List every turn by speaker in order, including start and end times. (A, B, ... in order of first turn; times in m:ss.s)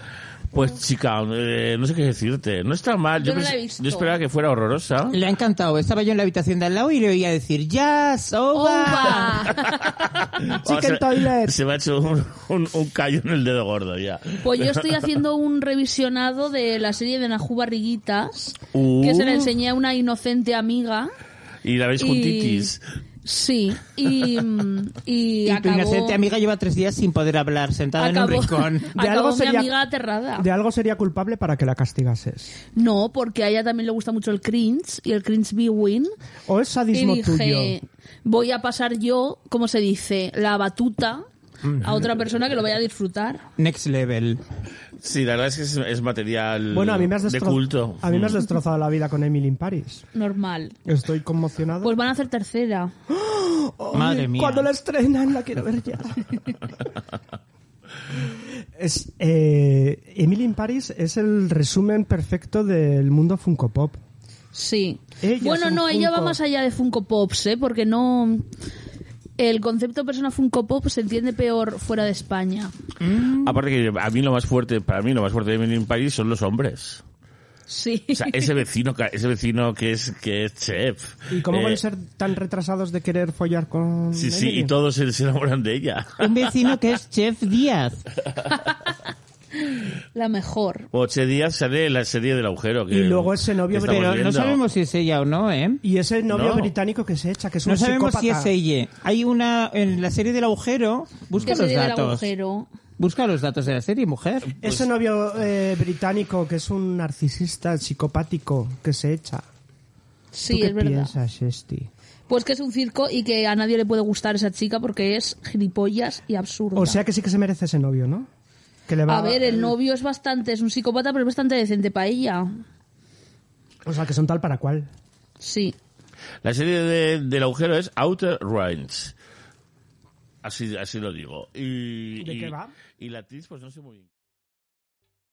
0:00.5-0:05.2 A
0:03.2-0:04.2 B
0:05.1-0:09.3 C
0:08.5-0:10.2 B
0:09.6-0:14.8 A
0:10.5-0:11.6 D
0:14.4-0:21.1 B
0:18.7-0:19.5 A
0:21.6-0:22.8 A
0:22.0-0:22.7 B
0:23.2-0:26.2 B
0:25.4-0:28.9 C
0:28.0-0:30.5 B
0:28.9-0:29.7 D
0:30.4-0:32.5 D
0:32.8-0:36.1 B
0:36.5-0:37.8 D
0:36.9-0:41.2 B
0:41.8-0:43.4 B
0:43.6-0:44.4 C
0:45.0-0:48.4 A
0:46.7-0:50.1 D
0:50.1-0:50.8 B
0:50.8-0:52.0 D
0:51.8-0:52.9 B
0:53.1-0:56.6 D
0:53.9-0:54.7 C
0:58.8-1:04.0 D
1:04.5-1:08.5 B
1:05.2-1:06.4 D
1:09.4-1:12.7 B
1:13.2-1:17.0 A
1:17.7-1:18.5 B
1:18.2-1:21.8 A
1:21.3-1:24.7 D
1:24.1-1:26.4 A
1:26.2-1:28.0 C
1:28.5-1:29.0 B
1:29.7-1:30.9 B
1:30.9-1:34.6 A
1:32.9-1:34.3 D
1:33.8-1:35.8 C
1:35.8-1:38.5 D
1:36.3-1:36.7 A
1:37.6-1:42.3 C
1:41.4-1:42.7 B
1:43.0-1:44.6 C
1:44.6-1:49.4 D
1:50.3-1:51.2 B
1:50.5-1:51.9 D
1:52.3-1:57.0 B
1:56.8-1:58.3 D
1:58.9-1:59.7 D
1:59.1-2:02.5 B
2:03.9-2:04.9 D
2:05.4-2:05.8 B
2:06.4-2:09.2 A
2:10.4-2:14.1 A
2:12.2-2:12.7 D